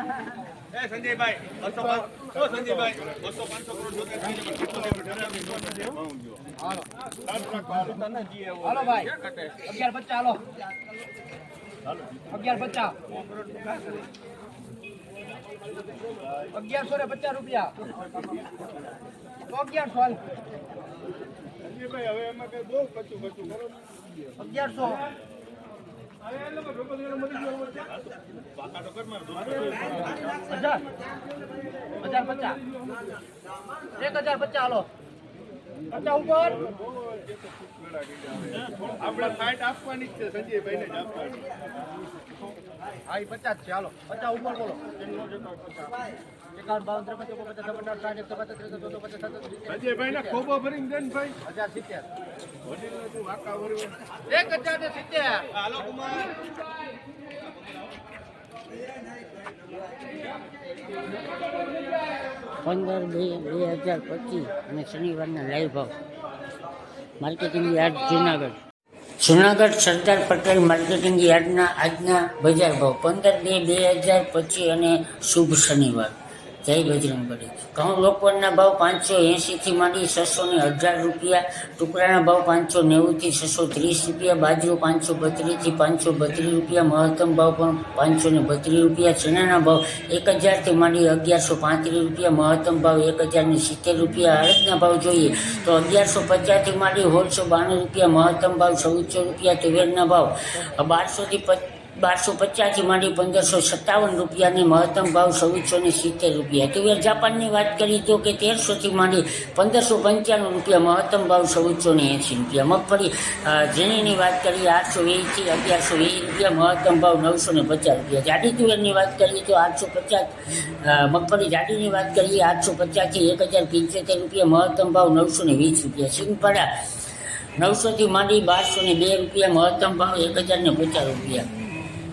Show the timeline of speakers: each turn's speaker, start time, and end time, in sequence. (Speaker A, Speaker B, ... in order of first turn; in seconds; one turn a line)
Speaker A: 1.5-3.0
Speaker A: 3.9-5.3
Speaker A: 7.3-8.7
Speaker B: 8.6-9.1
Speaker B: 9.7-10.4
Speaker B: 12.3-13.0
Speaker B: 16.5-17.8
Speaker B: 19.5-20.2
Speaker A: 22.1-23.5
Speaker B: 24.4-25.1
Speaker B: 32.1-32.6
Speaker B: 34.0-34.9
Speaker B: 36.0-36.6
Speaker A: 39.0-41.3
Speaker B: 43.1-44.8
Speaker B: 46.6-50.5
Speaker A: 49.9-51.4
Speaker B: 51.4-52.0
Speaker B: 54.3-55.5
Speaker C: 62.6-66.0
Speaker C: 67.2-68.6
Speaker C: 69.2-126.7
Speaker C: 127.6-131.5